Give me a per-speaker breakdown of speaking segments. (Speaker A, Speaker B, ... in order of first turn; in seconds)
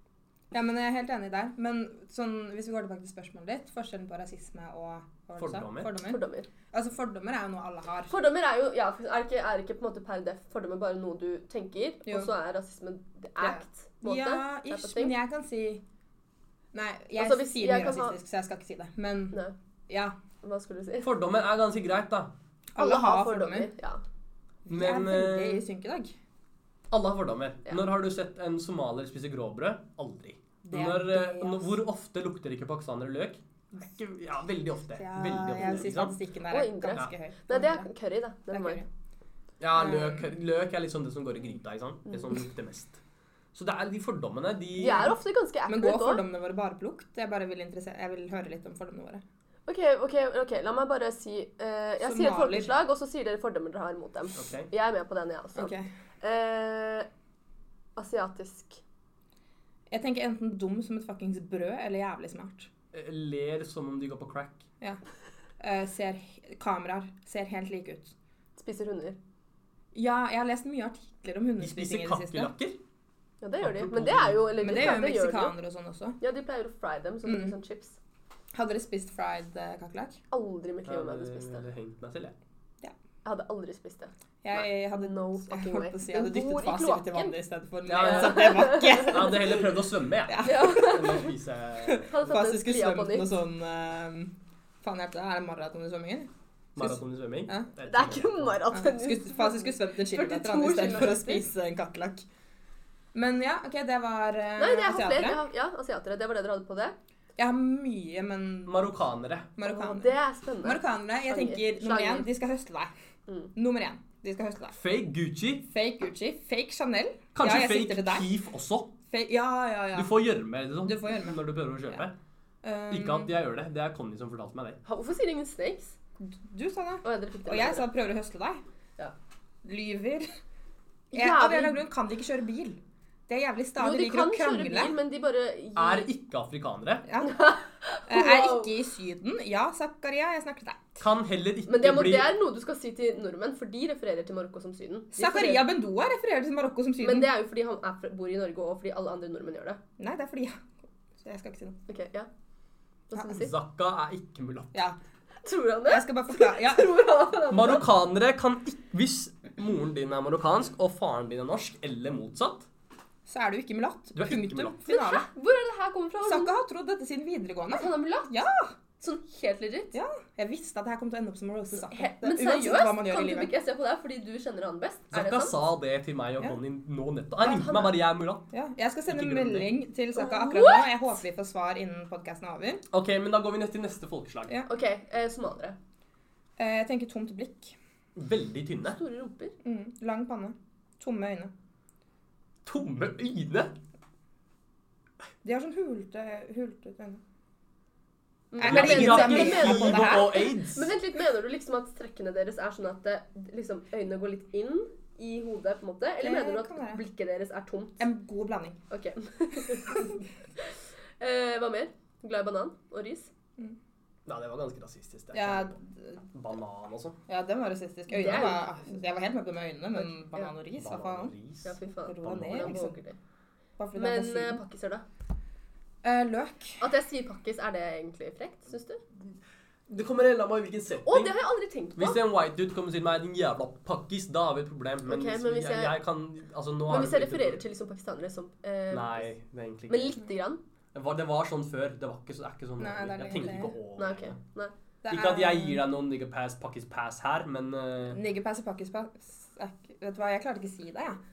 Speaker A: 0.5-8.2, 12.1-12.3, 13.4-15.8, 16.7-20.1, 22.8-23.7, 24.7-26.2, 30.6-31.7, 35.0-37.9, 38.5-38.9, 39.7-40.3, 44.9-45.1, 45.7-49.2, 52.0-52.7, 55.6-55.9, 59.9-62.7, 65.6-68.2, 69.9-72.5, 74.6-76.2, 77.2-77.6, 78.5-80.2, 84.4-89.7, 90.3-91.2, 91.8-97.7, 98.7-102.2, 103.1-105.4, 107.4-108.9, 109.6-112.9, 113.5-114.8, 115.7-118.3, 119.1-120.2, 120.8-122.0, 122.6-123.3, 126.2-128.6, 129.7-130.3, 131.1-134.9, 137.1-137.6, 138.1-141.0, 145.2-147.3, 150.0-151.8, 155.9-157.0, 163.3-165.3, 166.2-168.7, 169.9-173.5, 177.4-177.9, 178.5-182.8, 186.6-187.8, 189.6-191.5, 195.4-197.2, 198.6-200.4, 206.2-207.0, 208.0-208.8, 209.6-210.2, 215.3-216.3, 217.3-223.0, 223.8-224.6, 226.0-226.8, 242.8-243.8, 245.0-245.8, 248.1-251.2
Speaker B: 5.4-5.9, 21.0-22.3, 24.7-25.6, 26.9-36.2, 39.6-43.0, 43.5-45.1, 54.4-54.7, 62.9-64.6, 71.6-72.8, 73.6-74.7, 80.8-82.4, 87.9-92.1, 96.8-98.6, 108.7-109.5, 114.7-115.7, 117.3-118.9, 119.9-122.2, 122.9-124.8, 135.8-137.1, 141.0-142.4, 153.3-154.8, 157.5-162.7, 164.2-164.8, 175.1-178.5, 179.1-179.7, 182.9-184.5, 188.2-189.0, 192.7-193.7, 198.6-200.9, 214.3-215.7, 216.3-217.2, 220.8-221.8, 229.9-231.3, 232.0-237.6, 238.9-240.2, 240.9-244.4, 245.1-248.2
Speaker C: 6.1-6.5, 8.1-15.1, 17.2-18.2, 20.4-21.1, 22.8-24.0, 36.5-38.8, 44.8-46.2, 49.7-57.1, 58.0-58.8, 68.6-69.2, 73.4-75.5, 76.2-78.0, 80.3-81.6, 83.2-84.1, 84.9-87.3, 88.0-89.4, 90.4-91.3, 92.1-93.4, 97.9-101.5, 104.6-107.0, 109.6-112.3, 113.3-113.5, 124.9-126.0, 127.0-127.9, 131.1-131.8, 133.8-136.1, 137.2-138.8, 141.7-145.7, 147.0-149.8, 151.9-152.3, 153.1-153.5, 155.4-157.8, 164.9-166.6, 167.7-168.3, 169.0-169.9, 171.8-175.6, 177.5-177.9, 180.2-181.1, 184.7-185.8, 188.8-189.6, 198.5-208.1, 208.9-213.3, 218.1-218.8, 220.0-220.5, 221.7-223.2, 223.9-225.0, 226.8-229.0, 231.1-232.2, 235.1-236.0, 236.9-239.3, 239.9-240.6, 244.0-244.7